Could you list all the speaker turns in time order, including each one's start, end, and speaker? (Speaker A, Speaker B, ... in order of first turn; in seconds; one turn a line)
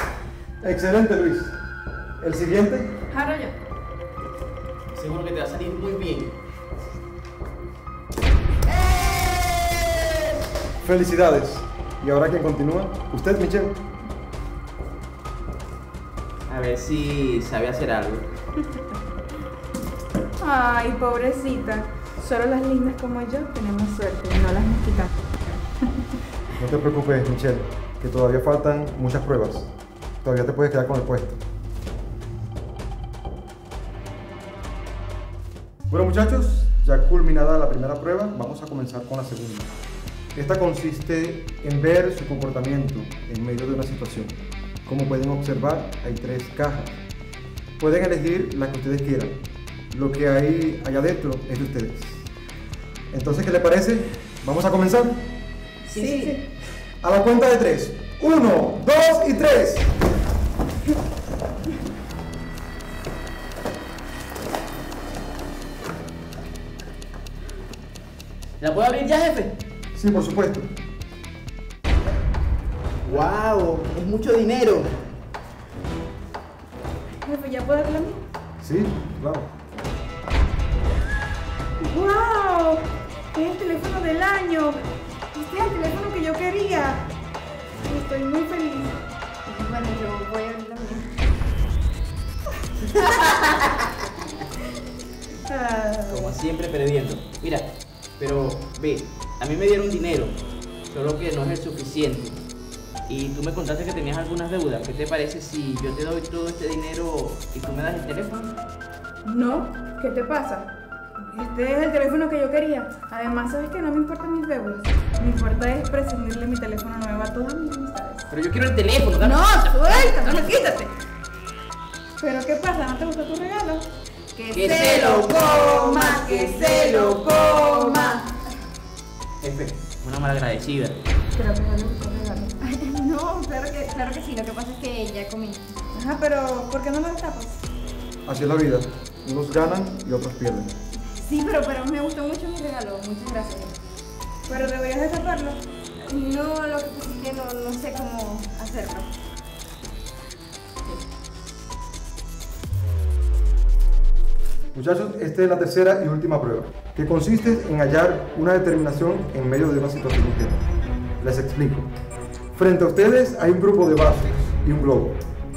Speaker A: 0.6-1.6
Speaker A: 2.2-3.0
Speaker B: 3.1-3.5
Speaker C: 4.9-6.3
Speaker C: 8.8-9.8
Speaker A: 10.8-13.8
Speaker C: 16.5-18.2
Speaker D: 20.4-26.1
Speaker A: 26.5-29.7
Speaker A: 30.2-31.4
Speaker A: 35.9-39.7
Speaker A: 40.3-44.3
Speaker A: 44.9-47.0
Speaker A: 47.8-49.4
Speaker A: 49.9-52.3
Speaker A: 53.1-55.3
Speaker C: 55.9-56.4
Speaker D: 55.9-56.5
Speaker A: 57.0-59.9
Speaker C: 68.6-69.5
Speaker A: 70.0-70.7
Speaker C: 73.0-74.9
Speaker D: 77.2-78.2
Speaker A: 78.6-79.5
Speaker D: 81.8-84.8
Speaker D: 85.4-87.1
Speaker B: 85.5-85.8
Speaker D: 87.8-89.0
Speaker B: 89.5-91.2
Speaker B: 95.5-96.2
Speaker C: 96.1-100.3
Speaker C: 100.9-102.4
Speaker C: 103.1-108.5
Speaker D: 109.2-110.7
Speaker D: 111.3-118.3
Speaker C: 118.3-120.4
Speaker D: 119.2-120.8
Speaker B: 120.0-120.9
Speaker D: 122.2-123.9
Speaker B: 124.4-126.2
Speaker C: 124.5-127.3
Speaker D: 124.5-128.2
Speaker B: 127.8-128.2
Speaker C: 129.4-130.9
Speaker D: 131.3-132.6
Speaker B: 132.6-135.7
Speaker D: 135.9-137.6
Speaker A: 138.2-140.7
Speaker B: 140.9-143.8
Speaker D: 144.5-145.6
Speaker B: 146.0-149.1
Speaker A: 154.7-160.6
Speaker A: 161.2-161.9
Speaker A: 162.5-165.2